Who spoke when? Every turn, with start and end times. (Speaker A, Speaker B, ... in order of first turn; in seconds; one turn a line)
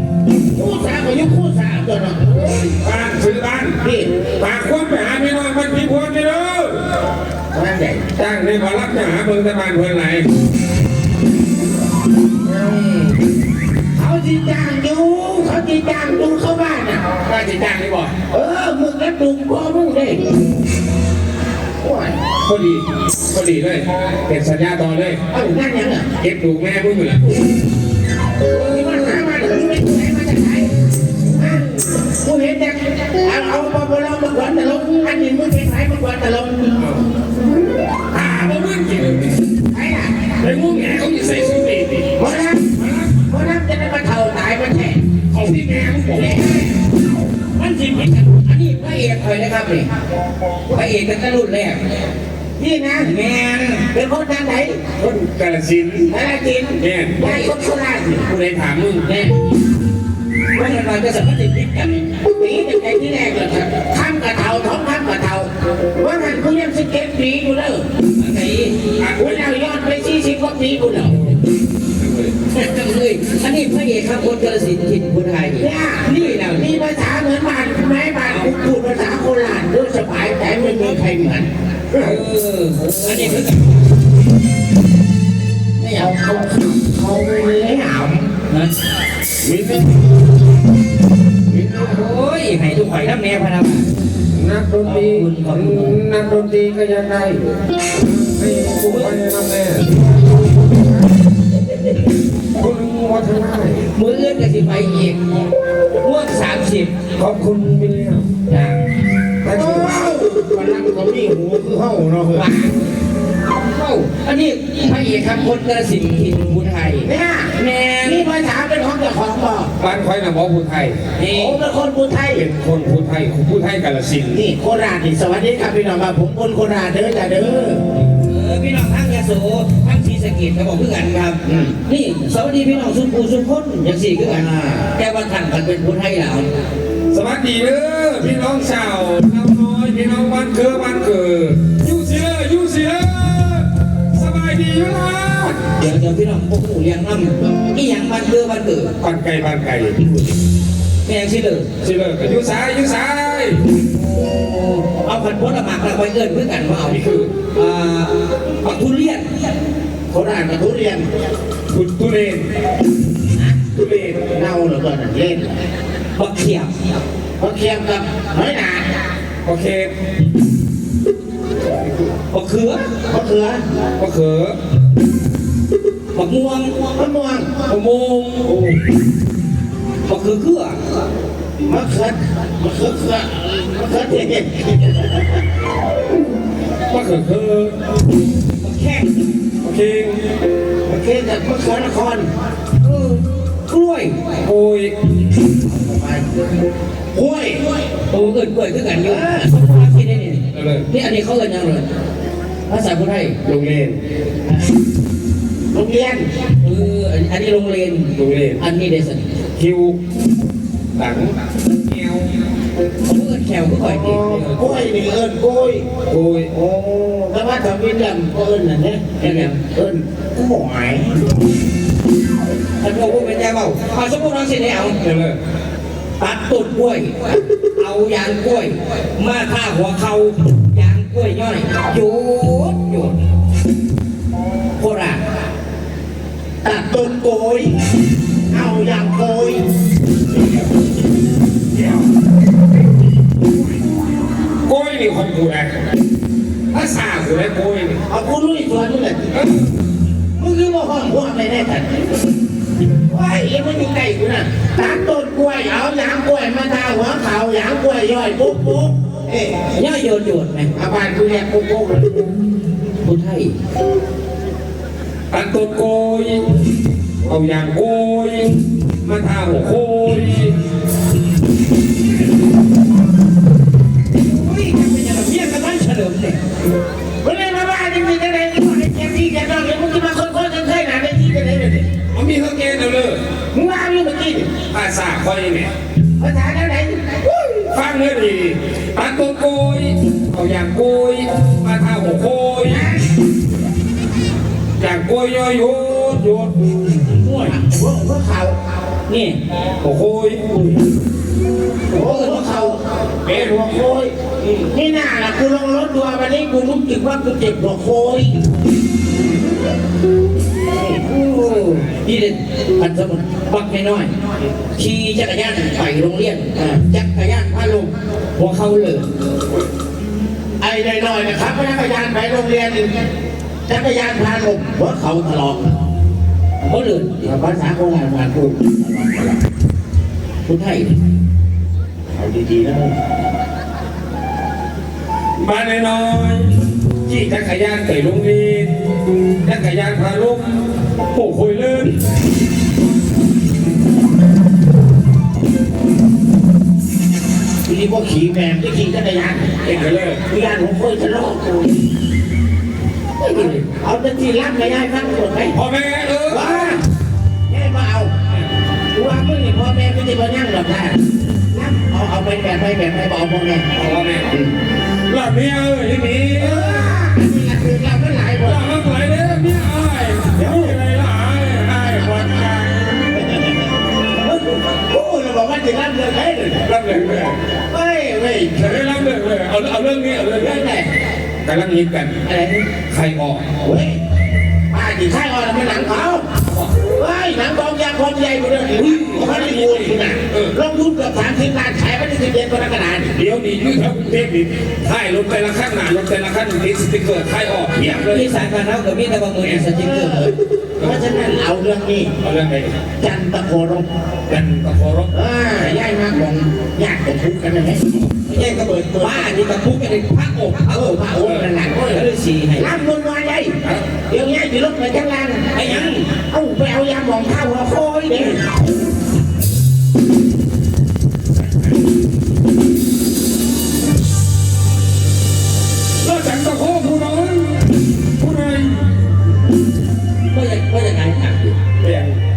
Speaker A: 0.5-2.5
Speaker B: 2.8-6.8
Speaker A: 3.8-4.1
Speaker A: 7.5-8.1
Speaker B: 8.1-10.3
Speaker C: 12.5-13.1
Speaker A: 13.9-17.2
Speaker B: 17.2-18.1
Speaker A: 18.1-20.2
Speaker A: 21.8-22.1
Speaker B: 22.4-25.2
Speaker A: 25.3-26.1
Speaker B: 26.1-27.4
Speaker A: 28.5-30.7
Speaker A: 31.3-36.7
Speaker B: 36.8-37.1
Speaker B: 38.1-39.3
Speaker A: 39.7-40.3
Speaker B: 40.4-42.1
Speaker A: 42.1-45.0
Speaker B: 42.8-43.2
Speaker B: 45.3-46.7
Speaker A: 46.1-46.7
Speaker C: 47.6-49.9
Speaker C: 50.7-51.8
Speaker A: 52.6-53.1
Speaker C: 53.0-53.8
Speaker A: 53.9-54.8
Speaker B: 55.0-56.1
Speaker A: 56.1-58.3
Speaker B: 56.8-57.4
Speaker B: 58.2-59.0
Speaker C: 59.0-59.3
Speaker C: 60.5-62.0
Speaker A: 62.2-67.9
Speaker C: 68.2-68.7
Speaker B: 69.0-69.5
Speaker A: 69.2-71.2
Speaker B: 72.0-72.3
Speaker C: 72.5-76.7
Speaker A: 75.6-81.5
Speaker B: 81.9-82.2
Speaker C: 82.0-83.8
Speaker A: 85.8-88.3
Speaker C: 88.5-88.7
Speaker B: 89.4-89.9
Speaker B: 91.5-92.0
Speaker C: 91.8-93.9
Speaker B: 94.3-100.1
Speaker C: 94.8-96.0
Speaker C: 98.8-99.1
Speaker B: 102.5-103.9
Speaker C: 103.9-105.2
Speaker C: 106.0-106.9
Speaker B: 107.2-108.2
Speaker C: 108.5-108.8
Speaker B: 109.4-109.9
Speaker A: 109.5-112.5
Speaker C: 112.3-112.7
Speaker C: 113.5-118.3
Speaker A: 117.0-119.7
Speaker B: 119.8-121.0
Speaker C: 121.2-121.6
Speaker A: 121.3-122.4
Speaker B: 122.3-124.4
Speaker A: 124.3-127.8
Speaker C: 128.2-136.5
Speaker A: 131.4-131.8
Speaker A: 134.2-134.9
Speaker B: 137.1-145.6
Speaker C: 145.8-148.9
Speaker B: 149.0-150.0
Speaker C: 151.0-151.7
Speaker B: 151.8-153.6
Speaker C: 154.1-157.0
Speaker B: 156.8-157.3
Speaker C: 157.5-159.3
Speaker A: 160.1-161.0
Speaker B: 161.7-162.5
Speaker B: 163.7-164.3
Speaker A: 164.3-165.6
Speaker C: 166.1-166.7
Speaker A: 167.4-168.8
Speaker B: 169.4-169.9
Speaker C: 172.3-172.8
Speaker A: 173.1-173.6
Speaker B: 174.0-174.6
Speaker C: 176.1-176.7
Speaker A: 176.9-177.5
Speaker B: 177.7-178.8
Speaker C: 180.1-180.8
Speaker A: 181.6-185.2
Speaker B: 186.9-187.7
Speaker C: 188.6-189.2
Speaker B: 189.6-190.2
Speaker A: 190.8-192.3
Speaker C: 192.8-194.2
Speaker B: 194.4-194.9
Speaker A: 195.7-196.2
Speaker A: 197.1-197.8
Speaker C: 198.1-201.9
Speaker A: 199.0-199.5
Speaker B: 200.5-200.8
Speaker C: 202.7-203.4
Speaker B: 203.4-204.0
Speaker A: 205.7-206.3
Speaker C: 206.6-209.3
Speaker B: 208.1-208.6
Speaker B: 209.6-210.0
Speaker B: 210.9-212.3
Speaker C: 213.0-214.2
Speaker A: 214.0-215.8
Speaker B: 214.1-214.8
Speaker B: 216.1-216.5
Speaker A: 216.5-221.3
Speaker C: 219.2-219.5
Speaker C: 222.8-225.0
Speaker B: 225.0-225.4
Speaker C: 226.2-233.2
Speaker C: 234.8-235.2
Speaker A: 236.6-237.7
Speaker A: 238.5-239.6
Speaker B: 244.6-245.8
Speaker B: 246.7-248.0
Speaker A: 248.1-249.3
Speaker B: 249.3-249.6
Speaker A: 250.4-251.9
Speaker A: 253.1-259.6
Speaker C: 259.7-260.7
Speaker A: 260.7-262.3
Speaker C: 263.0-263.5
Speaker B: 265.3-266.4
Speaker B: 267.2-270.5
Speaker C: 274.3-276.4
Speaker A: 277.2-281.9
Speaker B: 282.1-283.2
Speaker A: 283.5-284.5
Speaker B: 284.7-285.7
Speaker A: 286.2-287.6
Speaker B: 287.7-292.8
Speaker A: 292.6-293.0
Speaker B: 294.8-296.5
Speaker C: 297.1-297.6
Speaker A: 297.5-298.5
Speaker C: 299.1-299.4
Speaker B: 299.8-300.6
Speaker C: 301.9-302.7
Speaker A: 301.9-308.3
Speaker B: 303.2-303.8
Speaker A: 310.7-311.0
Speaker C: 311.0-314.1
Speaker B: 311.4-312.0
Speaker C: 314.8-319.1
Speaker A: 320.6-322.9
Speaker A: 323.7-325.7
Speaker C: 326.6-327.3
Speaker A: 327.2-329.4
Speaker C: 330.4-331.0
Speaker A: 332.1-332.9
Speaker B: 335.4-336.5
Speaker B: 337.1-338.7
Speaker B: 339.4-342.0
Speaker A: 347.6-349.5
Speaker B: 349.6-350.2
Speaker A: 350.3-351.8
Speaker A: 353.2-355.5
Speaker B: 353.3-353.6
Speaker B: 355.5-356.8
Speaker A: 356.3-356.8
Speaker A: 357.5-358.1
Speaker A: 358.9-361.0
Speaker A: 361.5-363.6
Speaker B: 363.7-364.3
Speaker A: 364.3-364.5
Speaker B: 365.1-366.9
Speaker A: 366.4-368.6
Speaker B: 368.4-373.0
Speaker A: 370.4-370.8
Speaker A: 373.1-373.7
Speaker A: 374.2-376.7
Speaker B: 376.6-377.4
Speaker A: 377.7-378.9
Speaker B: 378.6-380.7
Speaker A: 380.4-380.9
Speaker B: 381.4-382.1
Speaker C: 382.3-382.6
Speaker B: 382.9-383.4
Speaker A: 383.6-384.0
Speaker A: 384.7-386.2
Speaker B: 386.4-386.8
Speaker A: 386.9-393.1
Speaker B: 388.8-390.6
Speaker B: 393.1-398.5
Speaker C: 398.0-400.3
Speaker A: 399.7-402.1
Speaker B: 400.8-401.1
Speaker B: 402.2-402.8
Speaker A: 403.0-403.9
Speaker B: 404.3-405.1
Speaker A: 405.1-409.4
Speaker C: 408.3-411.0
Speaker A: 410.7-418.4
Speaker B: 411.1-411.5
Speaker C: 411.8-412.7
Speaker B: 413.6-413.9
Speaker C: 415.5-416.1
Speaker C: 418.0-418.4
Speaker B: 426.0-427.6
Speaker B: 428.2-428.9
Speaker C: 430.3-431.5
Speaker B: 431.8-432.1